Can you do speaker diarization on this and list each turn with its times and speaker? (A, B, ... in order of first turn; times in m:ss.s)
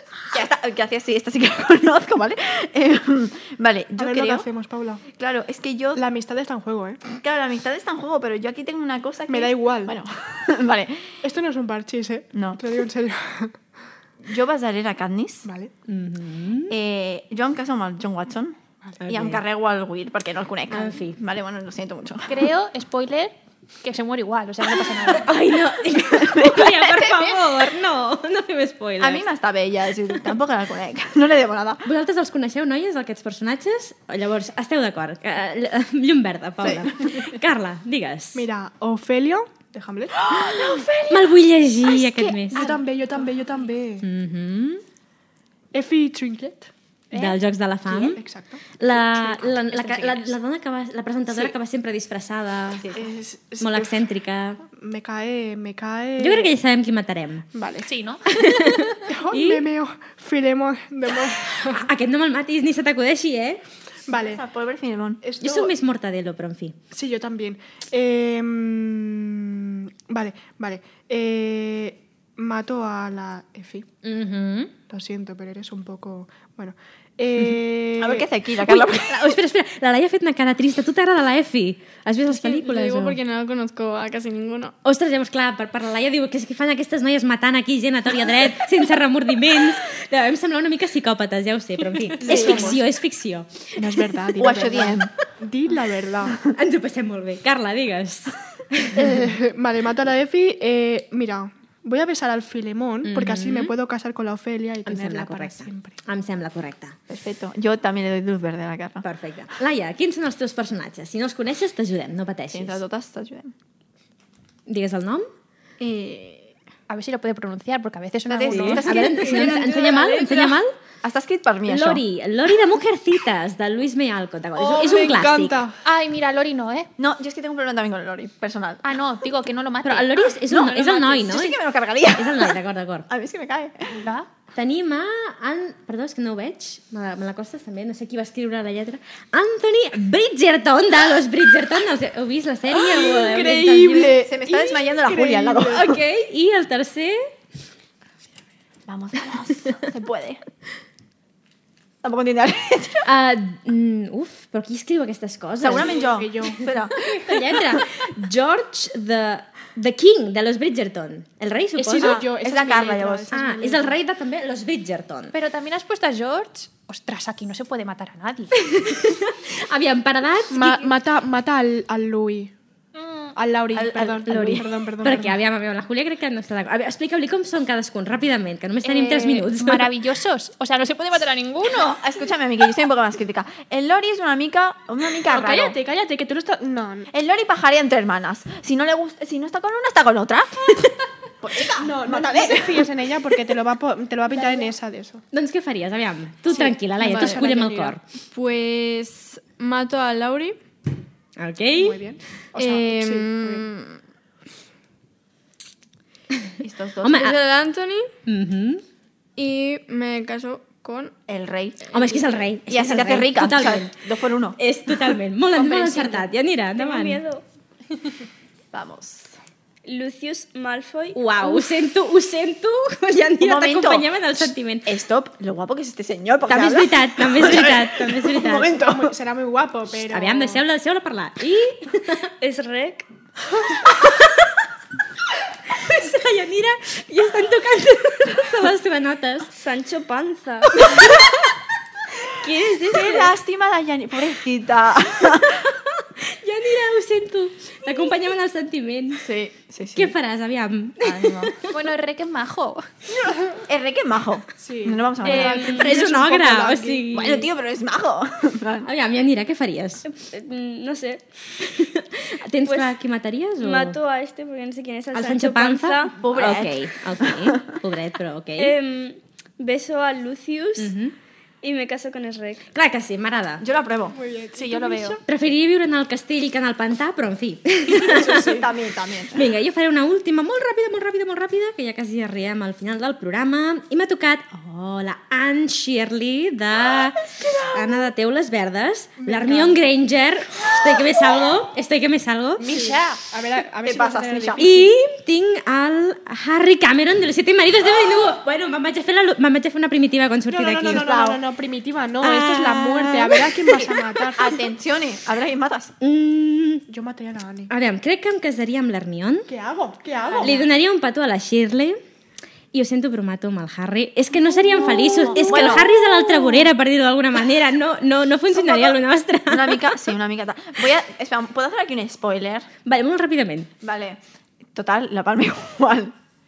0:00.3-0:04.5 A
0:04.0-0:05.0 B
0:05.1-0:06.0 A
0:05.9-0:07.0 B
0:07.1-0:11.2 A
0:09.3-0:10.0 B
0:11.2-0:13.6 B
0:12.3-0:12.6 A
0:14.2-0:15.5 A
0:15.4-0:15.7 B
0:15.9-0:16.8 C
0:16.7-0:18.6 A
0:19.0-0:19.4 C
0:19.1-0:22.5 A
0:20.7-0:21.2 C
0:22.3-0:25.3 D
0:25.1-0:29.2 C
0:26.0-0:27.5 A
0:29.0-0:31.8 A
0:31.8-0:38.5 C
0:36.6-0:37.2 A
0:38.3-0:40.3 B
0:40.3-0:42.7 C
0:40.3-0:41.2 A
0:41.9-0:42.7 A
0:42.6-0:44.1 B
0:42.6-0:42.8 D
0:44.0-0:44.8 C
0:45.7-0:46.7 B
0:47.1-0:47.4 D
0:47.1-0:48.2 C
0:47.9-0:48.6 B
0:48.8-0:53.0 C
0:49.2-0:50.4 D
0:53.0-0:54.1 B
0:53.6-0:54.6 C
0:54.7-0:56.6 B
0:56.2-0:57.5 C
0:57.5-0:57.9 B
0:57.8-0:58.2 D
0:58.3-0:59.6 C
0:59.0-1:01.8 B
1:01.7-1:03.6 C
1:04.1-1:04.4 B
1:04.1-1:05.2 A
1:05.2-1:05.8 B
1:05.4-1:06.8 C
1:06.9-1:13.9 B
1:14.0-1:14.7 C
1:14.9-1:18.3 B
1:18.0-1:19.2 A
1:18.6-1:23.2 C
1:22.3-1:24.7 E
1:24.8-1:33.8 C
1:32.2-1:32.8 B
1:32.3-1:32.8 A
1:33.8-1:36.4 B
1:34.4-1:35.1 A
1:36.4-1:39.1 C
1:38.9-1:46.0 B
1:43.0-1:43.7 C
1:44.9-1:47.0 C
1:47.1-1:49.0 A
1:49.0-1:52.8 C
1:52.5-1:53.5 A
1:54.7-1:55.3 C
1:55.8-1:56.5 A
1:56.9-1:59.6 D
1:58.3-2:02.0 A
1:58.5-2:00.8 C
2:01.7-2:05.6 C
2:04.6-2:05.8 B
2:05.8-2:06.9 D
2:07.0-2:09.0 A
2:08.8-2:10.3 D
2:09.8-2:11.6 C
2:10.5-2:12.6 A
2:12.1-2:13.1 C
2:13.1-2:14.0 A
2:13.8-2:14.3 D
2:14.5-2:24.2 C
2:22.7-2:25.9 B
2:24.1-2:25.8 A
2:25.7-2:27.2 C
2:28.9-2:30.4 A
2:32.0-2:33.0 A
2:33.0-2:36.0 C
2:35.6-2:37.6 A
2:35.8-2:36.6 B
2:37.0-2:42.2 C
2:41.8-2:44.0 B
2:42.0-2:43.3 A
2:43.3-2:45.4 C
2:45.3-2:48.5 D
2:48.6-2:50.9 C
2:50.5-2:52.5 B
2:53.4-2:55.4 B
2:53.7-2:54.8 A
2:54.3-3:00.0 C
2:58.8-3:02.0 D
3:01.6-3:05.8 A
3:05.3-3:07.1 B
3:07.1-3:12.9 A
3:11.8-3:15.2 B
3:15.3-3:18.0 C
3:16.5-3:18.0 B
3:17.0-3:17.5 E
3:18.3-3:20.6 E
3:21.4-3:22.0 C
3:21.8-3:23.6 B
3:22.6-3:23.3 E
3:23.3-3:24.0 A
3:26.6-3:27.3 A
3:27.0-3:27.4 C
3:27.1-3:28.1 E
3:28.3-3:28.8 C
3:29.4-3:31.2 E
3:31.3-3:31.9 A
3:31.9-3:34.0 C
3:32.7-3:34.6 A
3:34.6-3:37.2 C
3:36.8-3:37.4 F
3:38.7-3:39.3 A
3:39.8-3:41.7 F
3:41.1-3:44.9 C
3:43.4-3:49.2 A
3:46.5-3:48.7 C
3:48.7-3:50.6 B
3:50.1-3:52.3 C
3:52.4-3:53.1 F
3:53.8-3:54.4 C
3:55.7-3:59.5 C
3:59.5-4:01.0 F
4:02.4-4:03.4 F
4:02.9-4:05.7 A
4:05.6-4:09.2 C
4:09.2-4:10.2 A
4:10.0-4:11.5 C
4:11.0-4:11.6 A
4:11.7-4:12.9 D
4:13.7-4:15.9 A
4:14.6-4:17.1 B
4:15.2-4:17.5 C
4:15.3-4:16.0 F
4:17.1-4:18.9 A
4:18.8-4:20.0 C
4:20.1-4:21.3 F
4:21.7-4:24.0 C
4:22.6-4:22.9 F
4:23.6-4:26.2 F
4:25.1-4:28.8 C
4:26.2-4:27.6 A
4:28.6-4:30.9 F
4:30.8-4:31.1 C
4:31.6-4:32.7 F
4:32.7-4:33.6 C
4:33.6-4:34.2 A
4:34.1-4:35.2 B
4:34.5-4:35.2 D
4:35.3-4:38.6 C
4:38.0-4:39.5 A
4:38.3-4:38.6 B
4:39.3-4:52.7 C
4:46.8-4:48.1 A
4:49.2-4:49.9 B
4:52.6-4:53.2 D
4:52.6-4:54.9 B
4:53.8-4:54.6 A
4:54.6-5:01.4 C
5:00.5-5:04.6 B
5:02.2-5:05.9 A
5:06.0-5:06.8 C
5:06.9-5:07.7 B
5:07.7-5:09.5 C
5:09.5-5:10.6 B
5:10.2-5:10.6 A
5:10.4-5:12.0 C
5:12.7-5:19.9 C
5:14.8-5:15.9 A
5:18.5-5:22.7 A
5:22.9-5:23.7 C
5:23.8-5:24.2 A
5:24.7-5:26.2 A